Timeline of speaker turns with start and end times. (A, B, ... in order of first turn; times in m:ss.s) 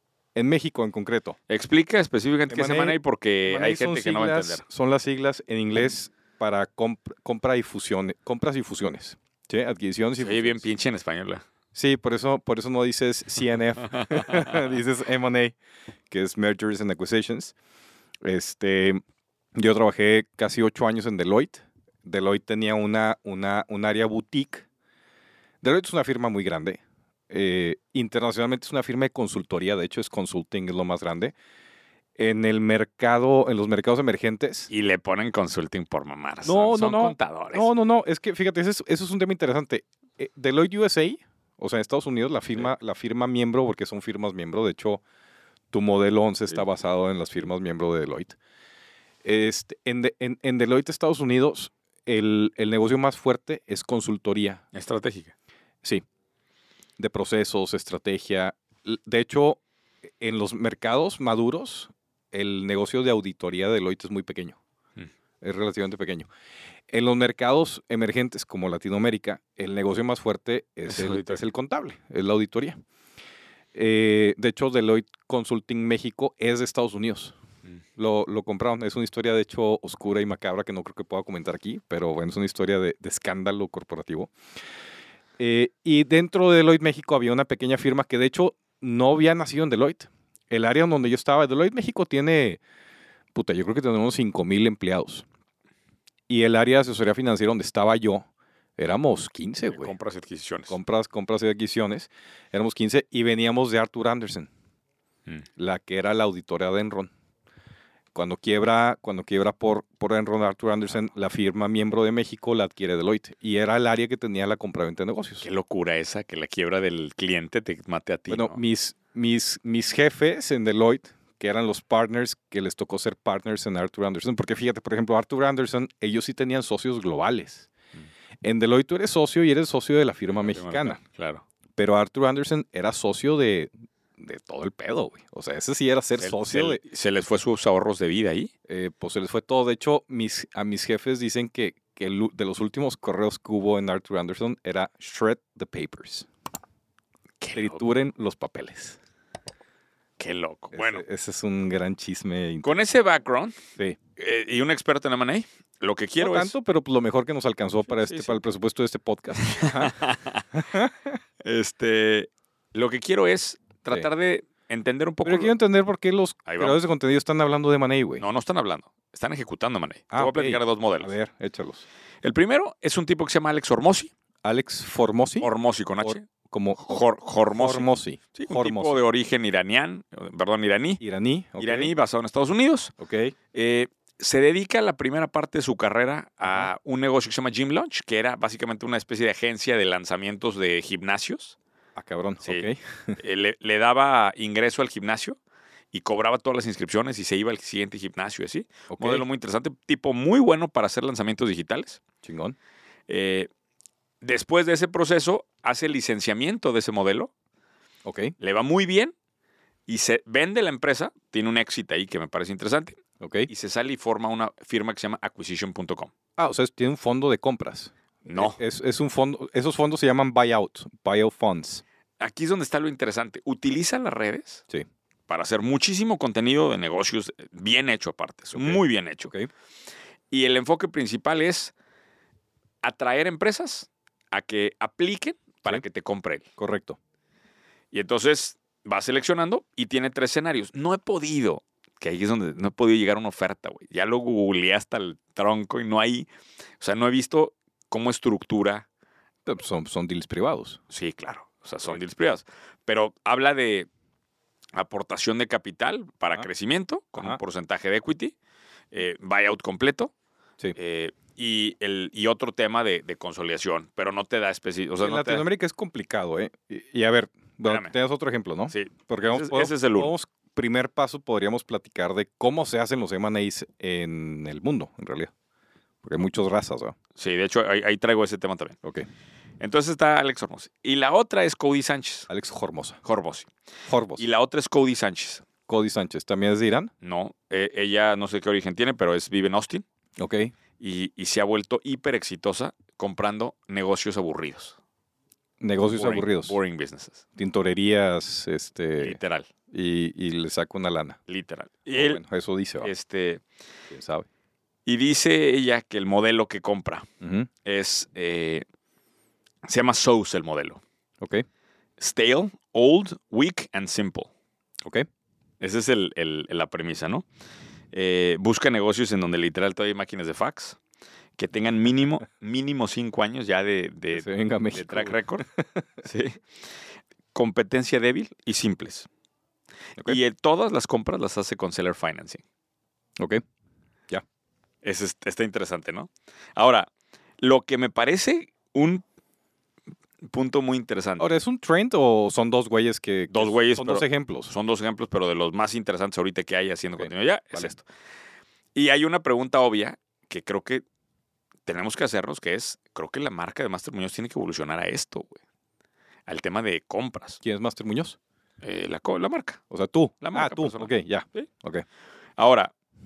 0:00.3-0:01.4 A
0:01.5-0:04.6 B
0:02.5-0:10.6 A
0:10.2-0:11.4 B
0:11.7-0:15.6 A
0:14.0-0:14.3 B
0:16.1-0:17.5 A
0:18.2-0:19.0 A
0:19.5-0:24.6 A
0:25.6-0:31.3 A
0:32.2-0:34.7 A
0:34.7-0:37.7 B
0:36.4-0:45.0 A
0:45.7-0:48.4 A
0:49.2-0:54.6 A
0:54.7-0:55.3 B
0:57.0-0:59.6 A
1:00.2-1:04.6 A
1:05.4-1:06.3 A
1:06.9-1:12.8 A
1:10.9-1:11.4 B
1:13.7-1:17.3 A
1:18.0-1:24.3 A
1:25.4-1:32.6 A
1:33.3-1:35.2 A
1:36.3-1:38.3 A
1:38.8-1:39.9 A
1:39.7-1:40.8 B
1:40.7-1:44.5 A
1:45.6-1:47.1 A
1:48.1-1:55.4 A
1:55.4-1:58.6 B
1:58.3-2:07.7 A
2:08.4-2:11.0 A
2:10.3-2:11.4 B
2:11.8-2:16.8 A
2:16.2-2:18.5 B
2:18.7-2:26.3 A
2:27.4-2:27.8 B
2:27.5-2:29.0 A
2:30.2-2:31.0 B
2:30.7-2:32.7 A
2:32.6-2:33.6 B
2:34.2-2:36.5 B
2:36.2-2:39.9 A
2:37.9-2:38.4 B
2:39.4-2:40.5 B
2:40.5-2:41.2 A
2:41.4-2:45.5 B
2:45.2-2:48.2 A
2:46.4-2:46.8 B
2:48.2-2:51.1 B
2:50.1-2:51.8 A
2:52.2-2:54.1 B
2:54.4-2:55.5 A
2:55.4-2:56.2 B
2:56.0-2:57.0 A
2:56.8-3:01.0 B
2:57.5-2:59.0 A
3:01.0-3:01.9 A
3:01.6-3:02.9 B
3:03.0-3:03.3 A
3:03.5-3:11.6 B
3:12.0-3:13.2 A
3:12.4-3:15.4 B
3:15.9-3:22.0 B
3:18.9-3:19.2 A
3:22.2-3:22.6 A
3:23.1-3:23.5 B
3:24.2-3:27.3 B
3:28.0-3:28.3 A
3:28.4-3:29.1 B
3:29.9-3:36.1 B
3:33.2-3:33.5 A
3:36.4-3:41.8 A
3:38.2-3:38.6 B
3:42.2-3:44.6 B
3:45.3-3:49.3 B
3:48.5-3:49.5 A
3:50.3-3:51.7 B
3:52.8-3:56.4 B
3:56.6-3:57.0 A
3:57.9-4:06.3 B
4:06.8-4:08.8 B
4:09.4-4:10.8 A
4:10.9-4:13.9 B
4:14.7-4:18.3 B
4:18.9-4:20.1 B
4:20.7-4:25.4 B
4:25.0-4:35.3 A
4:27.6-4:27.9 B
4:28.7-4:30.1 B
4:36.0-4:36.9 A
4:37.2-4:38.8 B
4:39.6-4:42.3 B
4:42.3-4:43.0 A
4:43.0-4:43.5 B
4:43.9-4:44.2 A
4:44.2-4:45.4 B
4:45.7-4:46.9 A
4:47.0-4:49.8 B
4:50.2-4:50.5 A
4:50.8-4:54.8 B
4:55.6-4:56.6 A
4:55.9-4:57.2 B
4:57.4-4:59.2 A
4:59.0-4:59.5 B
4:59.7-5:01.2 A
5:01.3-5:02.2 B
5:01.9-5:02.9 A
5:02.8-5:03.4 B
5:03.9-5:04.3 A
5:04.8-5:07.1 B
5:07.2-5:07.5 A
5:07.6-5:08.6 B
5:09.6-5:10.8 B
5:12.0-5:14.3 B
5:15.6-5:17.2 B
5:17.9-5:20.8 B
5:21.4-5:25.4 B
5:24.1-5:25.8 A
5:26.0-5:26.4 B
5:27.3-5:29.1 B
5:30.0-5:32.4 B
5:34.8-5:36.9 B
5:37.4-5:39.0 B
5:40.2-5:41.3 B
5:41.2-5:44.5 A
5:43.3-5:47.8 B
5:47.0-5:47.7 A
5:48.7-5:50.8 B
5:51.6-5:55.4 B
5:56.3-5:57.4 B
5:57.4-5:58.2 A
5:58.6-5:59.6 B
5:59.7-6:01.8 A
6:00.2-6:01.5 B
6:02.4-6:02.7 B